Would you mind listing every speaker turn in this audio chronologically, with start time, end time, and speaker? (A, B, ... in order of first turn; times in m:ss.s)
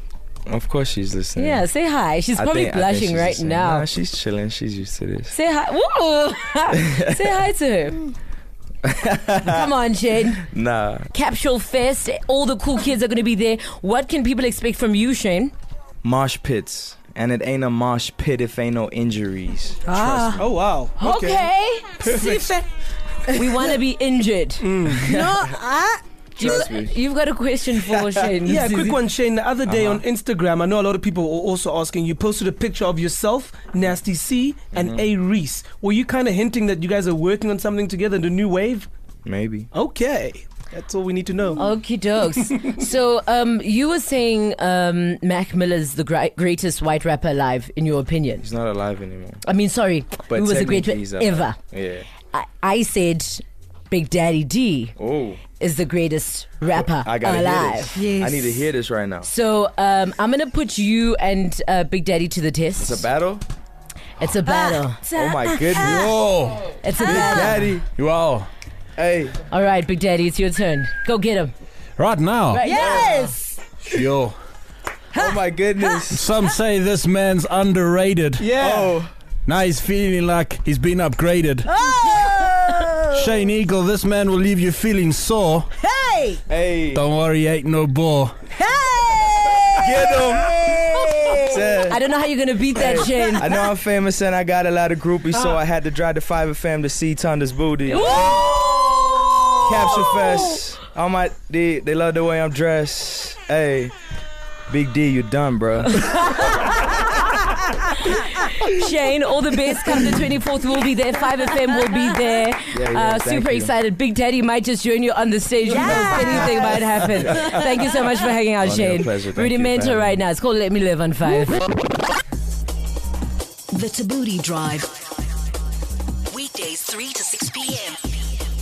0:00.5-0:01.6 A
0:01.4-0:03.9 B
0:02.3-0:05.4 A
0:05.3-0:08.1 B
0:08.8-0:09.6 A
0:09.4-0:10.4 B
0:10.4-0:11.1 A
0:11.1-0:15.5 B
0:16.0-0:20.4 A
0:19.9-0:20.4 C
0:20.4-0:21.5 D
0:21.0-0:22.1 B
0:22.0-0:22.6 C
0:22.1-0:22.5 D
0:23.3-0:24.7 B
0:24.6-0:25.1 D
0:24.9-0:25.4 A
0:25.0-0:26.0 C
0:26.4-0:27.0 A
0:26.4-0:29.0 B
0:27.9-0:28.2 A
0:28.4-0:38.9 D
0:29.7-0:30.0 A
0:34.7-0:35.1 A
0:39.2-0:39.7 A
0:39.7-0:41.6 D
0:41.6-0:48.4 B
0:48.4-0:49.4 A
0:49.4-0:51.6 B
0:50.3-0:52.1 A
0:52.3-0:54.9 B
0:55.0-0:55.4 A
0:55.6-0:58.0 B
0:56.8-0:59.3 A
0:57.9-0:58.6 C
0:59.2-1:03.1 B
1:02.8-1:03.4 A
1:04.2-1:05.1 B
1:04.4-1:06.1 C
1:05.1-1:06.2 A
1:05.8-1:06.8 E
1:06.8-1:07.7 B
1:06.8-1:07.7 C
1:07.0-1:07.9 A
1:07.9-1:08.5 E
1:09.0-1:09.4 A
1:09.5-1:11.5 B
1:12.0-1:12.6 E
1:12.5-1:13.2 B
1:12.6-1:13.7 C
1:12.7-1:13.3 A
1:13.8-1:14.4 E
1:15.1-1:16.3 A
1:16.1-1:18.6 E
1:18.4-1:18.9 D
1:18.5-1:19.1 A
1:19.4-1:21.7 E
1:21.7-1:23.4 C
1:23.1-1:25.7 E
1:25.8-1:26.4 C
1:26.5-1:27.0 A
1:26.9-1:28.4 E
1:28.5-1:31.6 C
1:29.8-1:32.0 A
1:31.9-1:33.5 B
1:32.8-1:38.4 A
1:37.9-1:38.9 B
1:39.6-1:43.9 A
1:44.7-1:46.2 A
1:45.9-1:47.2 B
1:48.0-2:01.6 B
1:52.7-1:53.7 A
1:55.8-1:56.6 F
1:55.9-1:57.6 C
1:58.6-2:00.2 A
2:03.7-2:04.9 F
2:06.3-2:08.0 F